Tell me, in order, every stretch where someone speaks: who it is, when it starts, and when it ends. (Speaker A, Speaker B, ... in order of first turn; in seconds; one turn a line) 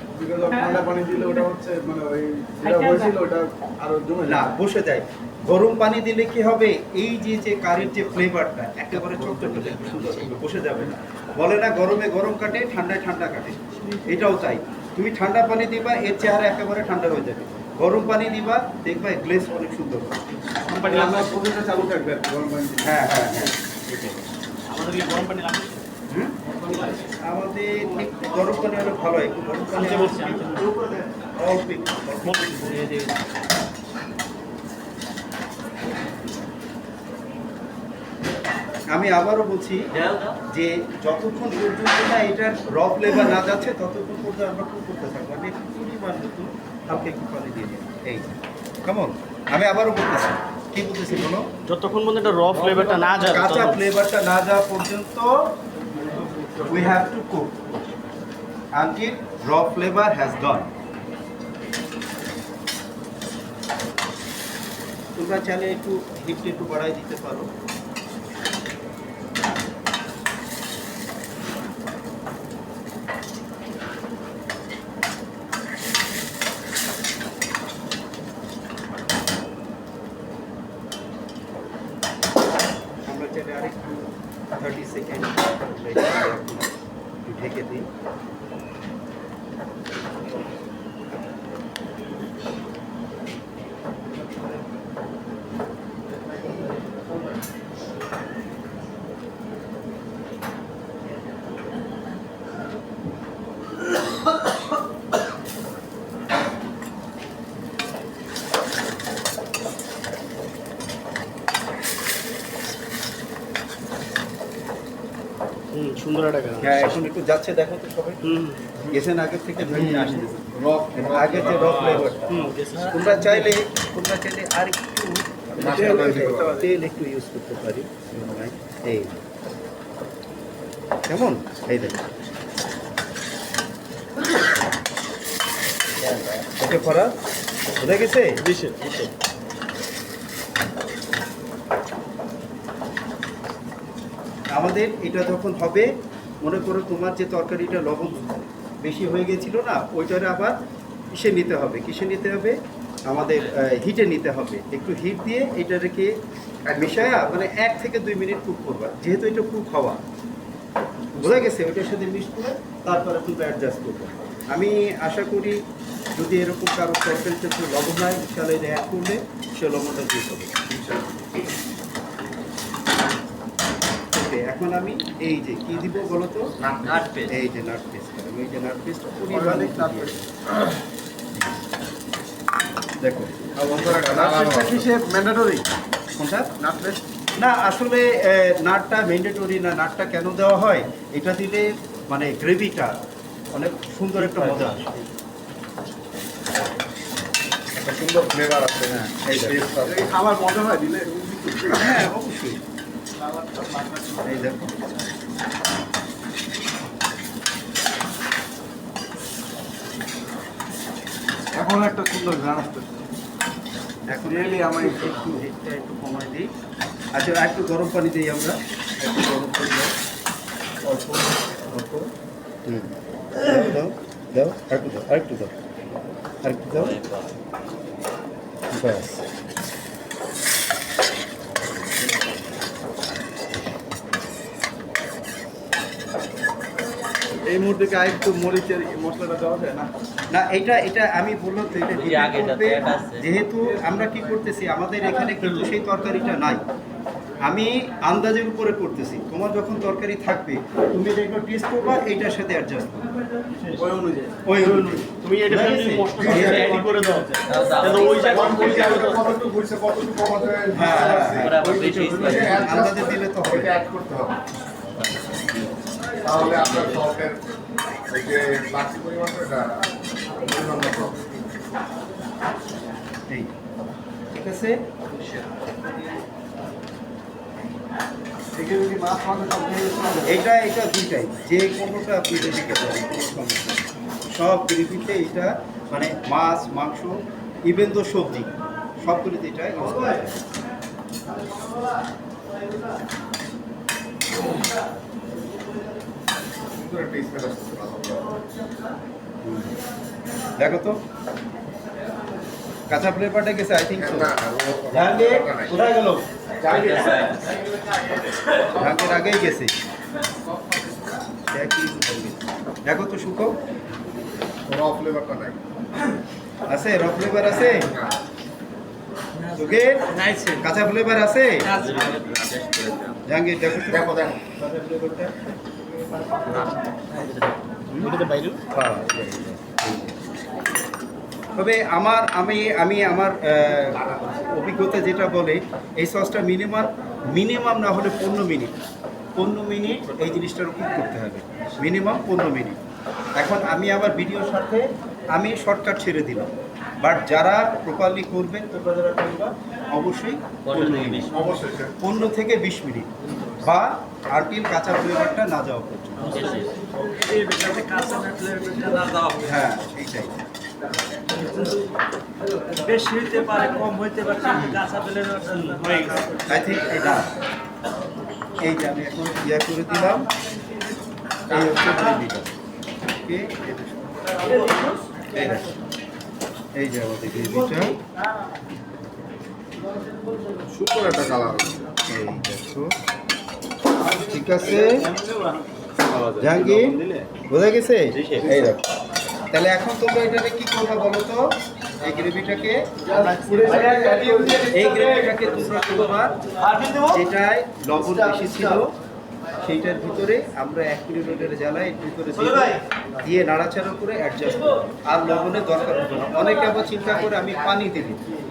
Speaker A: 0.1-4.5
Speaker B: 2.6-3.1
Speaker C: 4.2-20.2
Speaker D: 9.2-10.3
Speaker E: 20.7-21.3
Speaker A: 20.7-23.5
Speaker C: 22.8-24.2
Speaker E: 24.7-25.8
Speaker C: 26.1-26.4
Speaker C: 27.2-30.5
Speaker E: 29.7-30.7
Speaker C: 31.4-32.8
Speaker E: 32.2-33.0
Speaker C: 38.9-39.9
Speaker D: 39.9-40.4
Speaker C: 40.5-51.5
Speaker E: 51.6-53.8
Speaker C: 53.2-55.5
Speaker A: 56.0-56.6
Speaker C: 56.6-57.8
Speaker C: 58.7-60.7
Speaker C: 65.2-67.5
Speaker C: 83.0-84.0
Speaker C: 84.6-86.7
Speaker C: 87.3-87.9
Speaker E: 115.7-117.0
Speaker C: 116.6-118.2
Speaker E: 118.2-118.6
Speaker C: 118.9-120.5
Speaker F: 119.7-122.3
Speaker C: 121.1-129.2
Speaker D: 121.6-121.9
Speaker E: 122.3-123.5
Speaker F: 125.6-126.5
Speaker A: 125.6-126.7
Speaker C: 131.1-132.0
Speaker C: 136.6-137.1
Speaker C: 137.8-138.4
Speaker E: 138.4-139.1
Speaker C: 144.5-145.9
Speaker C: 146.4-150.6
Speaker C: 151.1-156.1
Speaker F: 156.6-157.3
Speaker C: 156.8-160.0
Speaker C: 161.1-165.6
Speaker C: 166.2-170.6
Speaker C: 174.1-176.5
Speaker F: 176.6-177.1
Speaker D: 176.8-177.3
Speaker C: 177.2-180.2
Speaker A: 179.3-180.1
Speaker C: 183.0-184.3
Speaker A: 183.6-185.6
Speaker F: 183.7-184.8
Speaker C: 186.2-186.5
Speaker A: 186.6-187.0
Speaker C: 187.4-192.9
Speaker C: 193.5-194.9
Speaker F: 197.7-200.1
Speaker C: 198.9-199.7
Speaker A: 199.8-202.0
Speaker C: 201.7-202.6
Speaker A: 203.6-204.2
Speaker C: 204.2-204.8
Speaker A: 211.5-213.0
Speaker C: 214.1-216.5
Speaker A: 214.2-215.4
Speaker C: 217.1-218.6
Speaker A: 219.0-219.9
Speaker A: 220.9-221.3
Speaker C: 221.7-222.0
Speaker C: 223.4-225.5
Speaker C: 226.4-226.9
Speaker D: 226.7-227.3
Speaker C: 228.7-229.2
Speaker A: 237.4-239.9
Speaker C: 240.3-246.6
Speaker D: 241.9-243.2
Speaker C: 247.4-253.0
Speaker E: 253.6-253.8
Speaker A: 253.8-254.3
Speaker C: 254.4-256.9
Speaker E: 254.5-259.2
Speaker D: 257.4-259.0
Speaker F: 257.9-261.6
Speaker C: 260.7-261.6
Speaker D: 260.8-262.9
Speaker A: 261.6-262.4
Speaker C: 262.2-263.7
Speaker F: 262.2-264.4
Speaker C: 264.9-265.8
Speaker F: 266.2-267.5
Speaker D: 266.3-267.1
Speaker F: 268.1-269.8
Speaker F: 270.4-271.2
Speaker C: 274.3-274.8
Speaker A: 278.5-280.4
Speaker C: 280.2-288.5
Speaker C: 289.0-290.3
Speaker F: 296.7-298.3
Speaker C: 299.4-299.8
Speaker C: 300.6-301.0
Speaker C: 302.9-304.3
Speaker F: 303.9-305.7
Speaker C: 304.9-306.2
Speaker D: 306.6-307.6
Speaker C: 308.8-309.7
Speaker C: 311.5-313.6
Speaker F: 314.6-315.6
Speaker C: 316.7-317.9
Speaker F: 317.7-318.1
Speaker C: 319.5-321.7
Speaker D: 321.6-323.2
Speaker C: 323.2-325.3
Speaker F: 323.8-324.4
Speaker C: 327.9-328.1
Speaker E: 328.0-328.6
Speaker C: 328.7-330.2
Speaker C: 331.6-338.7
Speaker C: 339.4-342.8
Speaker C: 343.4-351.3
Speaker D: 350.6-351.3
Speaker F: 351.3-351.9
Speaker C: 352.0-356.6
Speaker D: 356.2-356.7
Speaker E: 357.2-359.2
Speaker B: 357.3-359.2
Speaker C: 359.4-360.3
Speaker B: 362.8-365.6
Speaker E: 362.9-364.1
Speaker C: 364.5-364.8
Speaker E: 365.4-366.4
Speaker C: 366.5-367.3
Speaker C: 368.6-370.3
Speaker C: 371.5-372.5
Speaker C: 373.2-374.1
Speaker C: 375.3-375.7
Speaker C: 376.7-378.0
Speaker F: 380.6-381.8
Speaker C: 382.1-382.9
Speaker C: 384.2-385.1
Speaker E: 384.9-387.3
Speaker C: 386.4-388.8
Speaker E: 388.2-388.5
Speaker C: 389.5-392.9
Speaker A: 393.0-394.8
Speaker E: 393.4-394.6
Speaker C: 394.7-396.4
Speaker E: 396.7-397.1
Speaker C: 397.1-398.9
Speaker C: 399.6-408.2